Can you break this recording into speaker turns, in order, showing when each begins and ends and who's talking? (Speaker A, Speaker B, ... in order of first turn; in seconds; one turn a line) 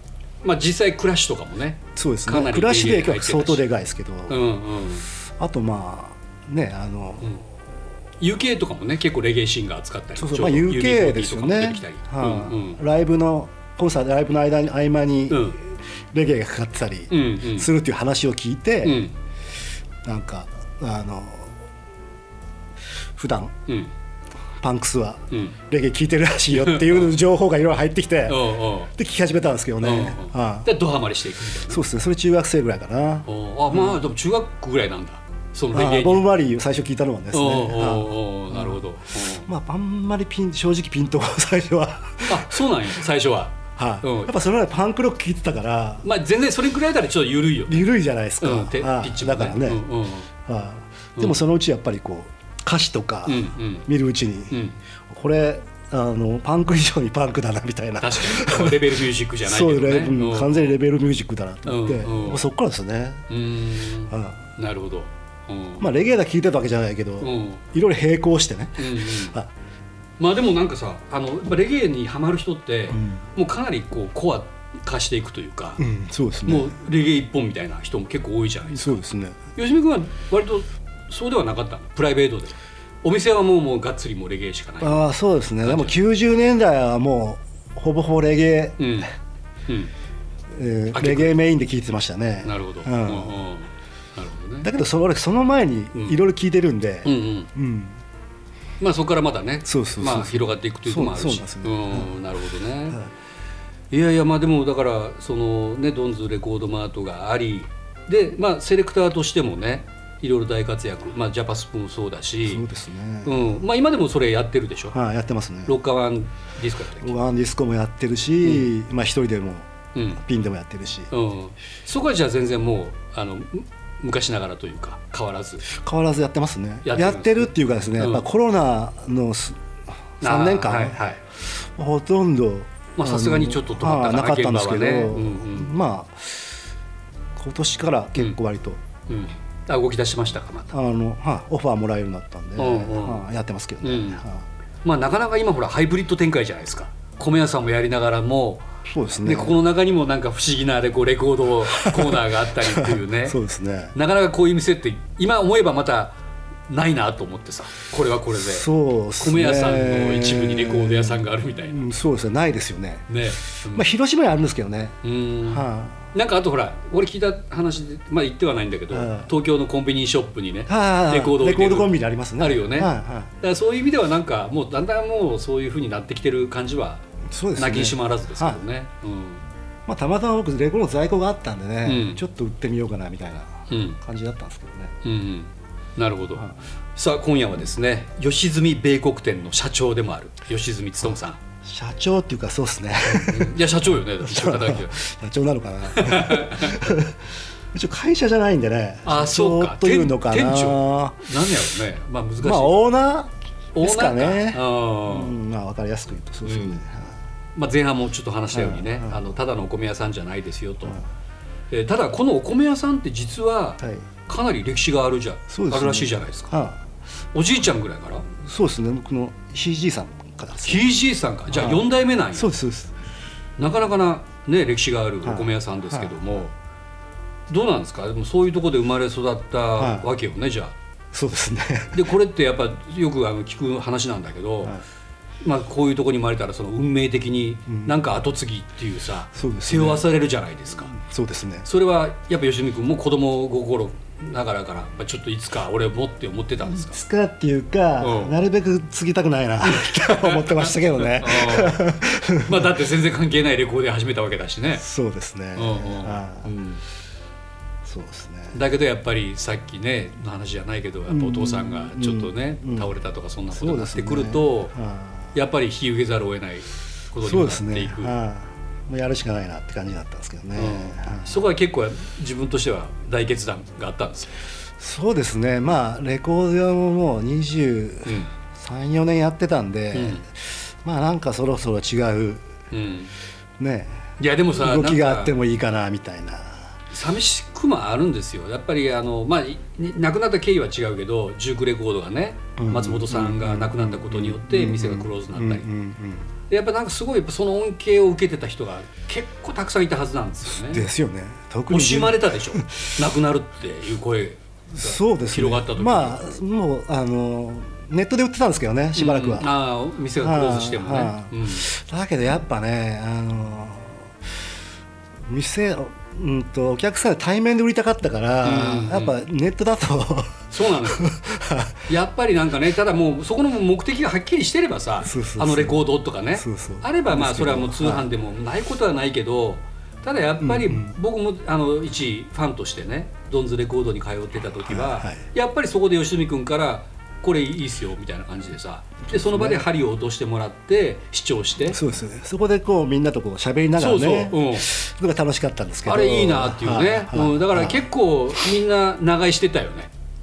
Speaker A: 0.4-3.6
Speaker B: 1.9-4.4
Speaker A: 4.3-5.1
Speaker B: 5.4-7.3
Speaker A: 8.2-12.8
Speaker B: 10.2-19.1
Speaker A: 15.3-15.6
Speaker A: 17.1-17.7
Speaker A: 18.8-19.1
Speaker B: 20.0-21.6
Speaker B: 23.1-23.5
Speaker A: 23.7-23.9
Speaker B: 24.6-30.7
Speaker A: 25.3-25.6
Speaker A: 26.5-27.1
Speaker A: 28.3-28.9
Speaker A: 29.8-31.8
Speaker B: 31.7-34.0
Speaker A: 33.2-36.3
Speaker B: 35.7-38.8
Speaker A: 37.3-39.5
Speaker B: 39.4-42.8
Speaker A: 42.3-44.3
Speaker B: 43.8-46.1
Speaker A: 46.0-47.9
Speaker B: 47.7-49.8
Speaker A: 48.4-50.3
Speaker B: 50.4-54.6
Speaker A: 53.2-53.9
Speaker A: 54.5-54.8
Speaker B: 55.1-58.9
Speaker A: 58.0-60.8
Speaker B: 59.4-63.2
Speaker A: 61.6-62.4
Speaker A: 63.3-65.9
Speaker B: 64.1-64.4
Speaker B: 65.8-69.5
Speaker A: 67.2-67.6
Speaker A: 68.8-69.3
Speaker A: 70.2-75.8
Speaker B: 72.9-73.2
Speaker B: 75.8-76.8
Speaker A: 76.5-79.0
Speaker B: 78.7-79.4
Speaker A: 79.5-85.0
Speaker B: 84.8-88.9
Speaker A: 85.6-86.0
Speaker A: 88.8-89.1
Speaker B: 90.5-93.3
Speaker A: 90.9-91.3
Speaker A: 92.4-94.7
Speaker B: 94.6-98.0
Speaker A: 97.0-97.5
Speaker A: 98.8-103.0
Speaker B: 99.7-102.1
Speaker A: 103.9-112.6
Speaker B: 112.4-113.6
Speaker A: 113.2-115.0
Speaker B: 114.9-115.7
Speaker A: 115.7-117.1
Speaker B: 117.0-121.1
Speaker A: 119.9-120.2
Speaker A: 121.1-125.7
Speaker B: 125.7-129.6
Speaker A: 126.8-128.3
Speaker B: 130.2-136.6
Speaker A: 130.2-131.2
Speaker A: 133.0-135.7
Speaker B: 137.3-138.8
Speaker A: 139.1-140.8
Speaker B: 140.7-144.4
Speaker A: 142.6-143.2
Speaker A: 143.8-144.2
Speaker A: 144.8-148.7
Speaker B: 148.8-149.6
Speaker A: 149.2-153.4
Speaker B: 151.8-153.9
Speaker A: 153.9-156.2
Speaker A: 156.7-158.7
Speaker B: 158.3-163.1
Speaker A: 159.2-161.9
Speaker A: 163.1-163.9
Speaker B: 163.7-166.1
Speaker A: 165.0-177.0
Speaker B: 168.9-169.3
Speaker B: 170.7-173.3
Speaker B: 177.3-178.6
Speaker A: 177.6-179.4
Speaker B: 179.9-184.9
Speaker A: 181.8-182.2
Speaker A: 183.7-184.0
Speaker A: 185.0-191.4
Speaker B: 191.6-193.6
Speaker A: 193.0-195.0
Speaker B: 194.2-197.2
Speaker A: 195.9-196.9
Speaker B: 197.7-201.3
Speaker A: 199.0-202.8
Speaker B: 202.4-207.1
Speaker A: 203.7-205.3
Speaker A: 206.4-206.8
Speaker A: 207.6-211.0
Speaker B: 208.5-209.2
Speaker A: 211.7-216.5
Speaker B: 215.5-216.8
Speaker A: 217.3-218.2
Speaker B: 218.3-220.8
Speaker A: 220.6-222.5
Speaker B: 221.5-222.9
Speaker A: 223.6-226.5
Speaker B: 225.2-226.4
Speaker A: 227.5-230.7
Speaker B: 229.8-230.1
Speaker B: 231.1-232.0
Speaker A: 231.9-234.8
Speaker A: 235.4-240.9
Speaker B: 237.7-238.0
Speaker B: 239.3-240.0
Speaker B: 240.9-241.7
Speaker A: 241.6-247.0
Speaker B: 246.7-252.7
Speaker A: 248.0-248.4
Speaker A: 249.7-251.9
Speaker A: 252.4-254.8
Speaker B: 254.8-256.5
Speaker A: 255.5-256.8
Speaker B: 257.8-258.6
Speaker A: 258.5-264.7
Speaker B: 261.1-262.9
Speaker B: 263.5-265.3
Speaker A: 265.3-268.1
Speaker B: 267.2-271.4
Speaker A: 270.6-274.4
Speaker B: 274.8-282.5
Speaker A: 279.9-280.2
Speaker A: 282.7-283.1
Speaker B: 283.6-286.7
Speaker A: 284.2-285.3
Speaker A: 286.9-295.7
Speaker B: 292.6-296.3
Speaker A: 296.5-300.8
Speaker B: 300.5-302.8
Speaker A: 301.7-306.2
Speaker B: 304.7-309.5
Speaker A: 308.9-311.7
Speaker B: 310.2-314.1
Speaker B: 315.2-321.8
Speaker A: 318.4-319.2
Speaker A: 320.5-321.1
Speaker A: 321.9-341.8
Speaker B: 325.0-325.8
Speaker B: 326.3-328.1
Speaker B: 330.4-330.9
Speaker B: 334.6-335.2
Speaker B: 339.1-339.7
Speaker B: 341.7-347.9
Speaker A: 343.8-344.7
Speaker A: 345.9-349.9